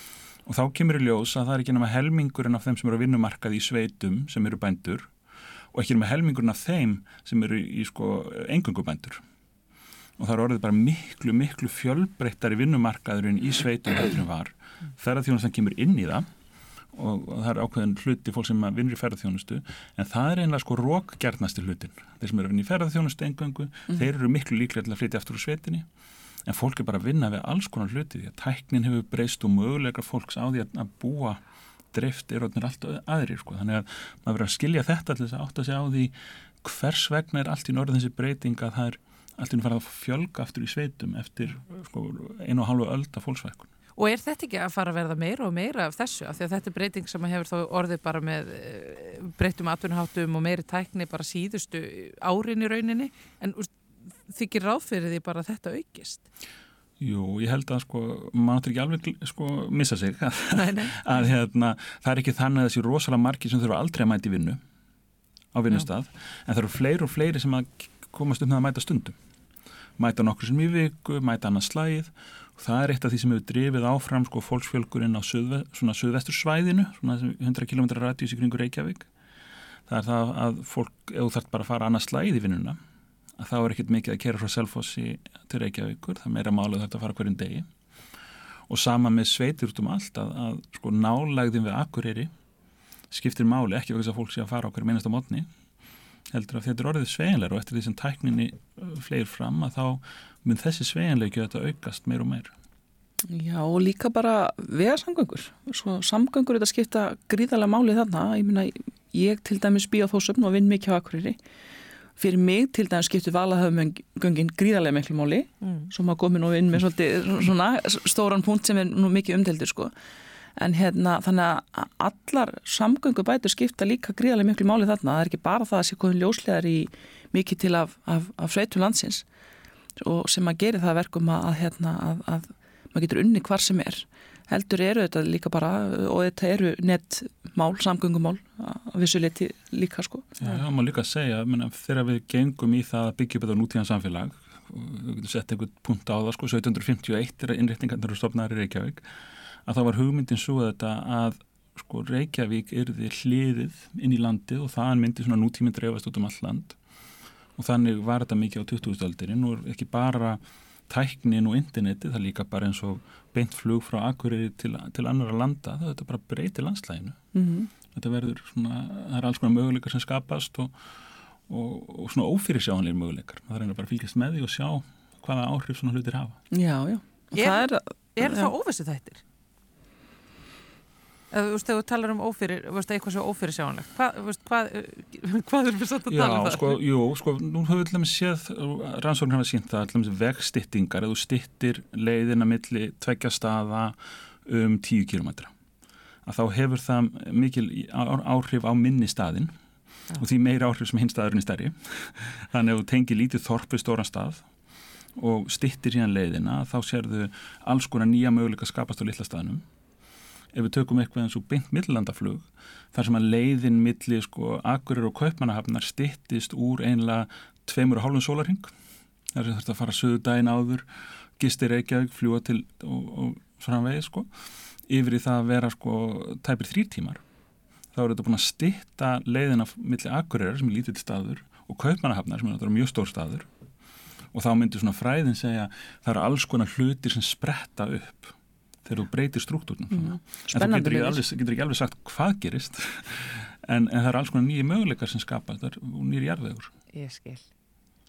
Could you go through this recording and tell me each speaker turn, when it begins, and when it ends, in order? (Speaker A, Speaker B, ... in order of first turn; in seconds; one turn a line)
Speaker A: 0.5-5.1
Speaker A: 5.7-9.2
Speaker A: 10.2-16.2
Speaker A: 16.9-25.9
Speaker A: 26.4-31.4
Speaker A: 31.9-43.7
Speaker B: 44.0-53.7
Speaker B: 54.3-56.2
Speaker A: 57.0-64.6
Speaker B: 60.5-61.3
Speaker A: 65.5-69.2
Speaker A: 70.0-79.1
Speaker A: 79.9-82.8
Speaker A: 83.4-87.7
Speaker A: 88.7-92.3
Speaker A: 93.1-95.5
Speaker A: 96.3-102.5
Speaker C: 103.3-111.4
Speaker C: 112.2-119.9
Speaker B: 115.6-115.9
Speaker C: 120.6-129.2
Speaker C: 130.0-140.3
Speaker A: 140.4-149.0
Speaker A: 149.7-156.8
Speaker A: 157.6-167.2
Speaker C: 167.3-167.7
Speaker A: 167.9-170.7
Speaker A: 171.5-176.4
Speaker C: 176.5-178.5
Speaker B: 177.3-177.6
Speaker B: 178.2-179.2
Speaker B: 181.3-186.8
Speaker A: 186.1-195.5
Speaker A: 196.2-199.5
Speaker A: 200.2-204.4
Speaker A: 205.2-209.6
Speaker A: 210.5-218.7
Speaker A: 219.3-220.8
Speaker A: 221.4-224.3
Speaker A: 224.9-227.2
Speaker A: 227.9-233.5
Speaker A: 234.3-238.3
Speaker A: 238.8-246.7
Speaker C: 239.9-241.2
Speaker B: 246.9-247.4